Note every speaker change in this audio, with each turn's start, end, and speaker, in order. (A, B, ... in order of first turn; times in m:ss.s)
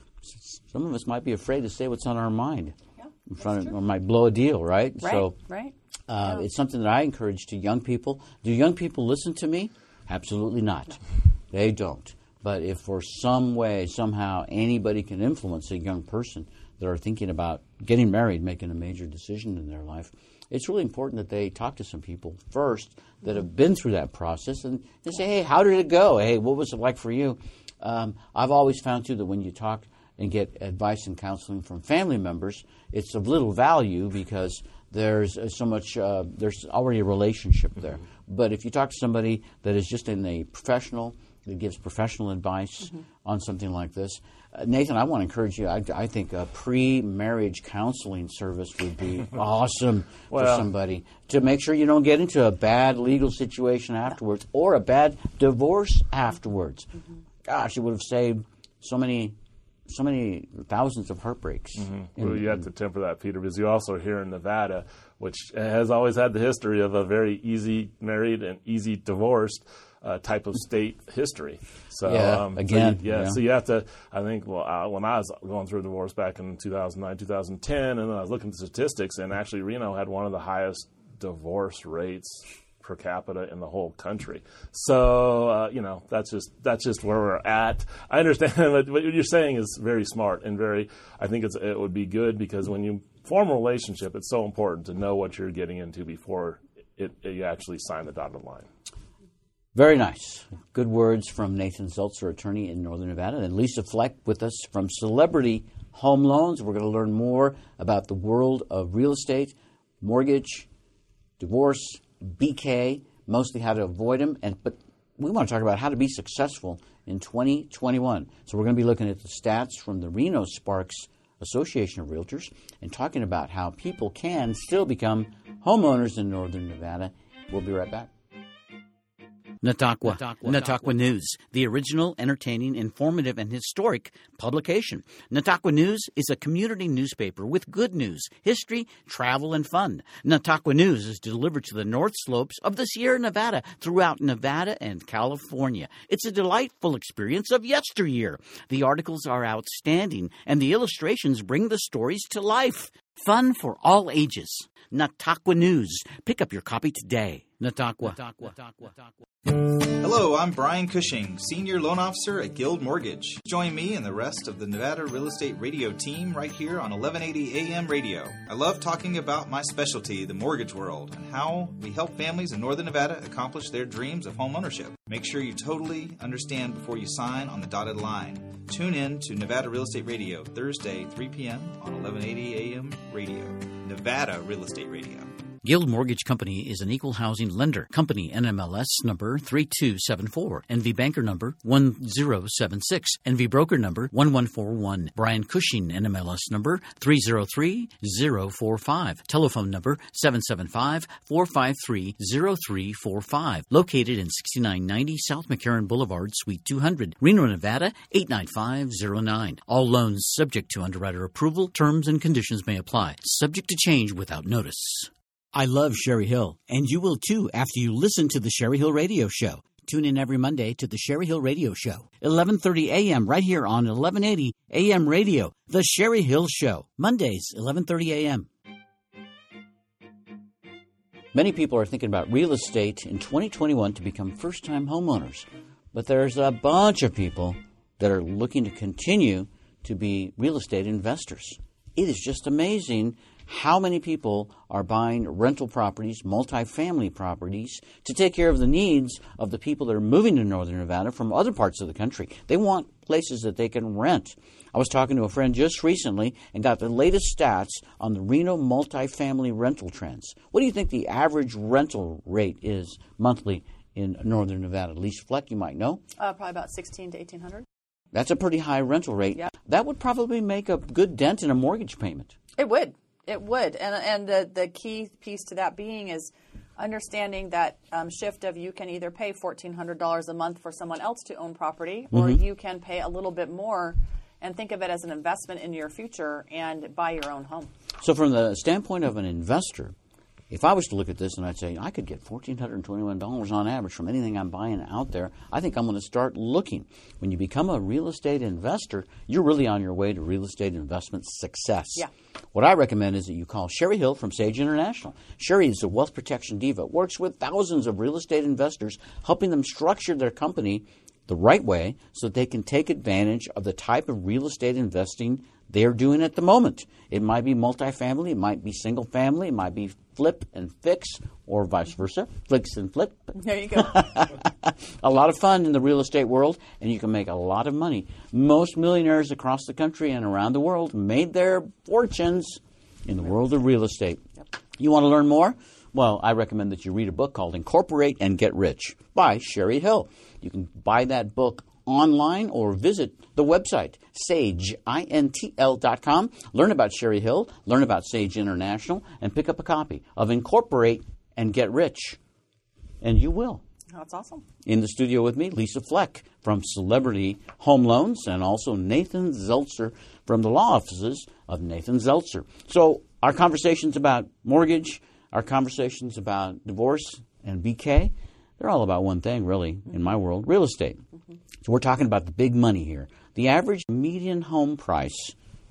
0:00.2-0:05.4 A
0:05.0-0:05.8 B
0:06.1-0:11.0 A
0:11.5-0:56.9 A
0:50.3-0:50.7 C
0:57.5-0:59.4 A
0:59.9-1:02.5 A
1:01.8-1:38.7 C
1:12.0-1:13.4 A
1:39.7-1:50.7 A
1:51.4-2:08.1 A
2:09.6-2:39.1 A
2:39.5-3:05.4 D
3:05.6-3:48.5 A
3:51.3-4:26.0 A
4:26.2-4:27.7 B
4:28.1-4:32.4 A
4:32.6-4:47.7 B
4:42.1-4:42.4 A
4:48.0-4:49.9 A
4:50.5-5:34.3 A
5:23.4-5:24.0 B
5:34.8-5:52.2 A
5:53.0-5:53.6 A
5:53.9-5:54.4 B
5:54.6-6:11.0 A
6:11.6-6:15.4 A